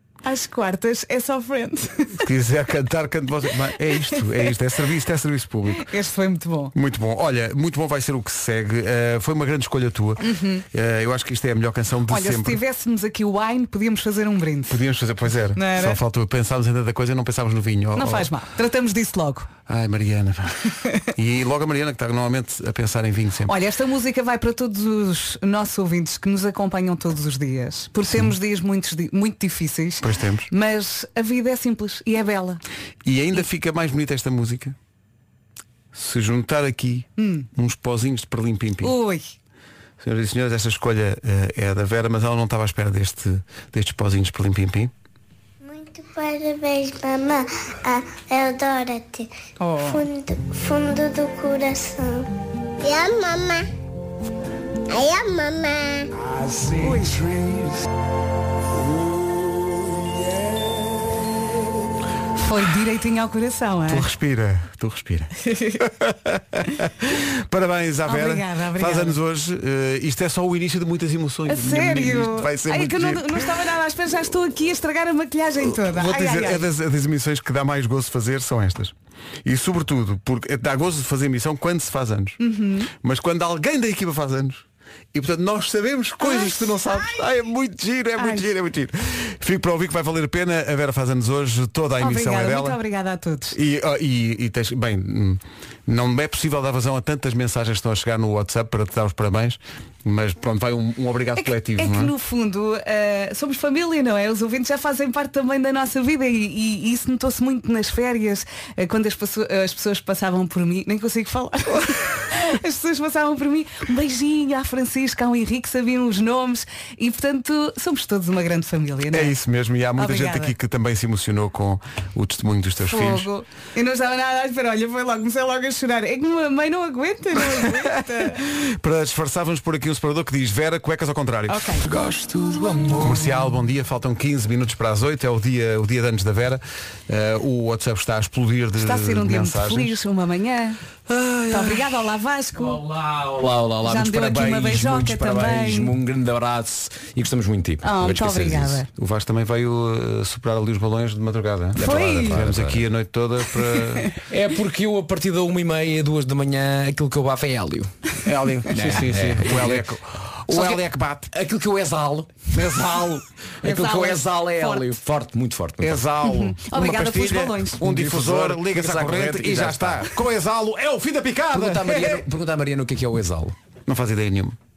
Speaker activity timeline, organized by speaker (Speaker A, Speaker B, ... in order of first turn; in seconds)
Speaker A: 0.2-2.2, 5.7-6.7, 10.2-10.6, 12.1-14.8, 15.5-16.0, 17.9-19.5, 23.5-32.6, 37.2-37.5, 38.8-39.3, 49.6-50.0, 56.8-57.2, 62.4-64.1, 65.4-65.9, 68.1-69.2, 71.5-76.6, 82.4-82.9, 86.2-87.1, 88.2-88.5, 92.0-93.6, 101.4-119.3, 120.0-120.5, 122.8-128.4, 131.5-131.9, 138.8-140.8, 141.5-142.8, 143.8-146.0, 147.8-148.9, 151.8-152.4, 163.6-164.9, 166.2-167.8
Speaker B: 2.2-5.9, 6.7-12.6, 14.7-18.3, 19.7-23.5, 30.0-30.5, 33.0-34.8, 35.9-39.0, 40.0-44.9, 63.9-73.6, 75.6-78.9, 79.5-82.4, 82.9-92.8, 93.5-102.1, 119.1-123.3, 127.5-131.8, 133.0-140.0, 148.9-154.1, 158.2-161.3, 162.5-163.2, 165.8-172.3, 173.9-174.6
Speaker C: 45.6-52.3, 52.8-53.7, 54.9-56.1
Speaker D: 131.9-133.3, 141.1-141.9, 142.6-148.8, 151.8-152.8, 154.3-157.9, 158.7-159.9, 160.5-162.5, 163.6-166.0, 167.8-170.1, 171.5-173.5